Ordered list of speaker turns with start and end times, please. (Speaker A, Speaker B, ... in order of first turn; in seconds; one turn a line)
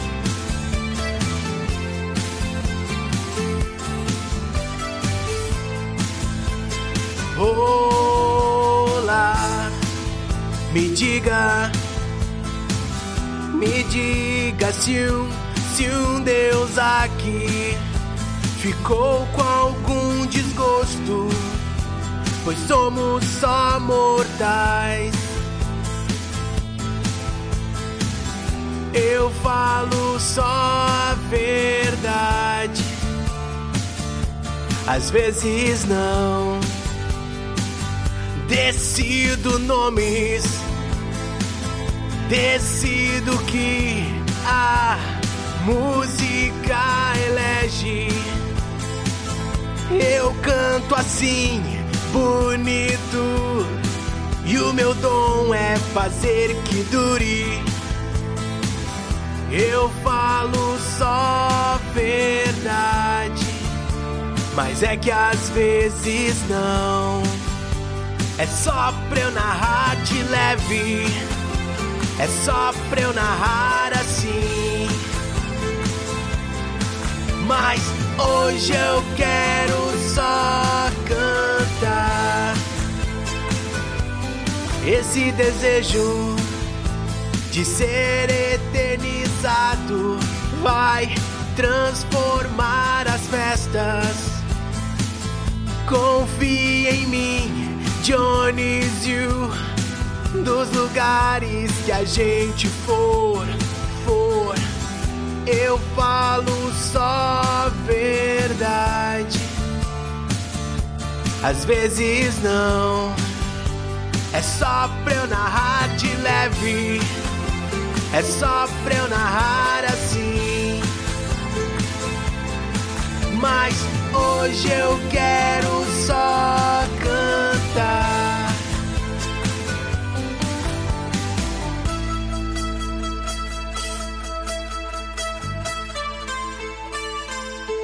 Speaker A: 7.3-9.8
Speaker A: 10.7-11.8
Speaker A: 13.5-17.9
Speaker A: 18.5-21.7
Speaker A: 22.4-25.4
Speaker A: 28.9-33.0
Speaker A: 34.9-36.8
Speaker A: 38.4-40.7
Speaker A: 42.3-48.4
Speaker A: 49.9-53.8
Speaker A: 54.4-57.7
Speaker A: 59.5-63.8
Speaker A: 64.5-67.5
Speaker A: 68.4-71.2
Speaker A: 72.2-75.0
Speaker A: 77.4-82.6
Speaker A: 84.8-86.5
Speaker A: 87.5-94.5
Speaker A: 95.8-99.6
Speaker A: 100.3-104.6
Speaker A: 105.5-109.6
Speaker A: 111.4-113.2
Speaker A: 114.3-117.1
Speaker A: 118.1-120.9
Speaker A: 123.3-128.6